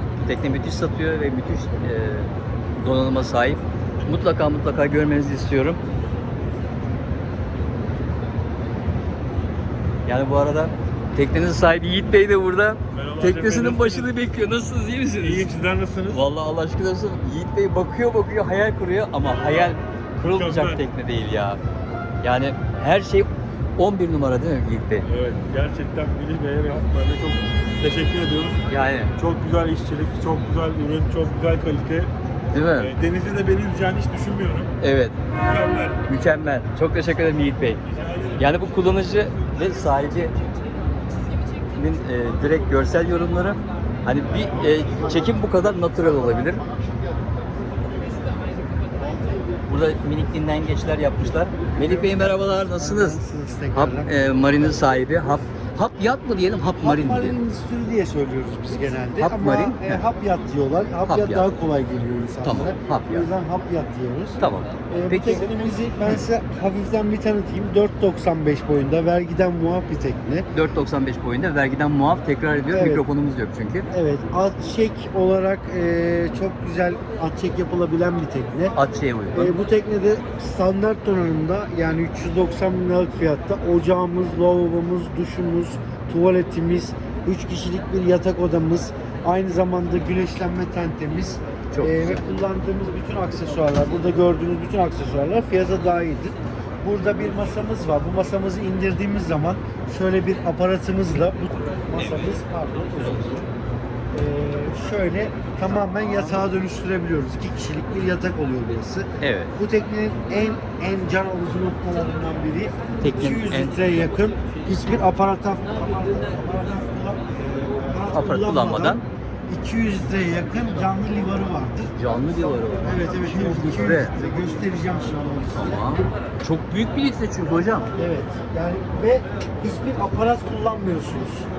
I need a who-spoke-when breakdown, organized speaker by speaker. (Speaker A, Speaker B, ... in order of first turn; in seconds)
Speaker A: 0.2-5.8, 10.1-15.5, 16.1-21.6, 22.2-25.1, 28.7-29.1, 32.5-32.9, 34.8-35.1, 36.1-37.8, 38.4-40.3, 41.7-46.6, 49.7-53.2, 53.7-57.4, 59.2-60.0, 61.1-61.5, 62.4-63.2, 64.4-65.5, 70.5-73.9, 78.8-79.5, 91.7-92.2, 102.0-102.3, 102.9-103.5, 109.2-109.5, 113.0-114.0, 118.1-119.0, 122.0-124.1, 125.5-127.9
Speaker B: 12.9-14.1, 15.2-16.2, 20.2-20.8, 25.1-32.1, 32.8-34.7, 35.4-36.0, 38.1-38.4
Speaker C: 51.8-54.1, 56.8-64.4, 64.9-70.5, 72.7-73.0, 73.9-78.8, 79.3-103.5, 104.1-121.9, 122.8-126.0, 127.9-131.5